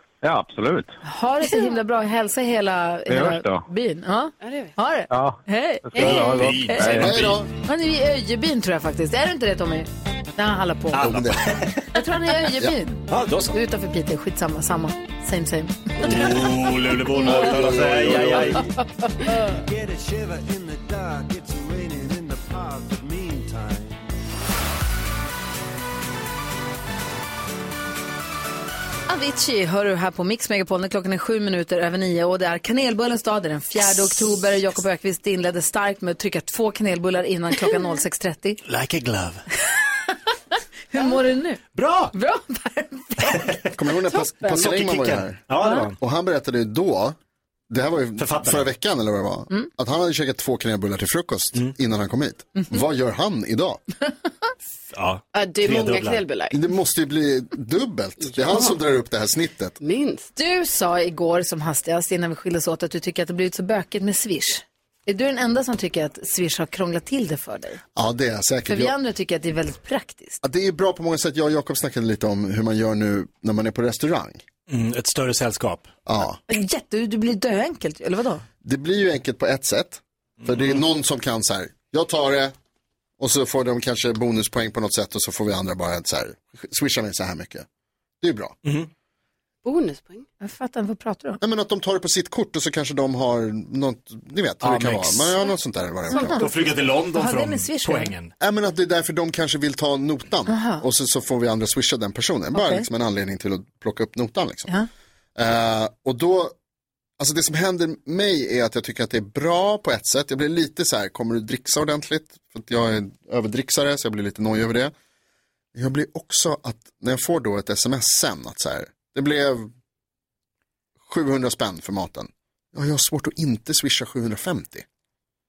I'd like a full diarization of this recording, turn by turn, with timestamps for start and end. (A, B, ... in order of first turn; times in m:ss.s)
0:00.2-0:00.9 A
0:01.0-0:11.2 B
0:03.1-0:03.6 A
0:04.4-0:04.7 C
0:05.1-0:05.4 A
0:05.9-0:07.2 A
0:06.0-0:07.4 D
0:07.0-0:07.5 E
0:10.9-0:11.9 D
0:11.0-0:11.7 E
0:11.9-0:16.4 B
0:13.1-0:13.6 D
0:16.0-0:18.7 D
0:17.2-0:18.7 E
0:17.2-0:17.5 B
0:19.2-0:19.5 B
0:19.5-0:24.0 F
0:29.1-0:38.6 B
0:38.6-0:39.4 D
0:40.9-0:43.5 B
0:41.8-0:42.1 D
0:43.3-0:43.6 D
0:43.7-0:47.2 E
0:44.4-0:46.0 D
0:45.6-0:45.9 B
0:47.7-0:53.8 E
0:48.2-0:48.7 D
0:54.9-0:56.2 D
0:55.3-0:56.6 C
0:56.5-0:59.8 E
0:59.8-1:00.3 C
1:00.4-1:07.8 B
1:08.0-1:09.0 E
1:08.7-1:10.4 B
1:10.4-1:14.4 E
1:14.7-1:15.9 D
1:16.1-1:16.4 E
1:16.5-1:18.4 B
1:18.6-1:22.5 E
1:20.4-1:20.8 D
1:23.2-1:27.7 E
1:28.2-1:28.6 E
1:29.6-1:30.3 C
1:30.4-1:31.4 B
1:31.4-1:36.5 E
1:34.6-1:35.4 D
1:36.1-1:36.5 B
1:36.3-1:38.3 D
1:37.1-1:38.2 B
1:38.4-1:44.7 E
1:40.5-1:40.8 B
1:42.5-1:42.8 B
1:45.4-1:46.5 E
1:47.2-1:54.9 E
1:55.7-1:59.7 E
2:01.0-2:04.8 E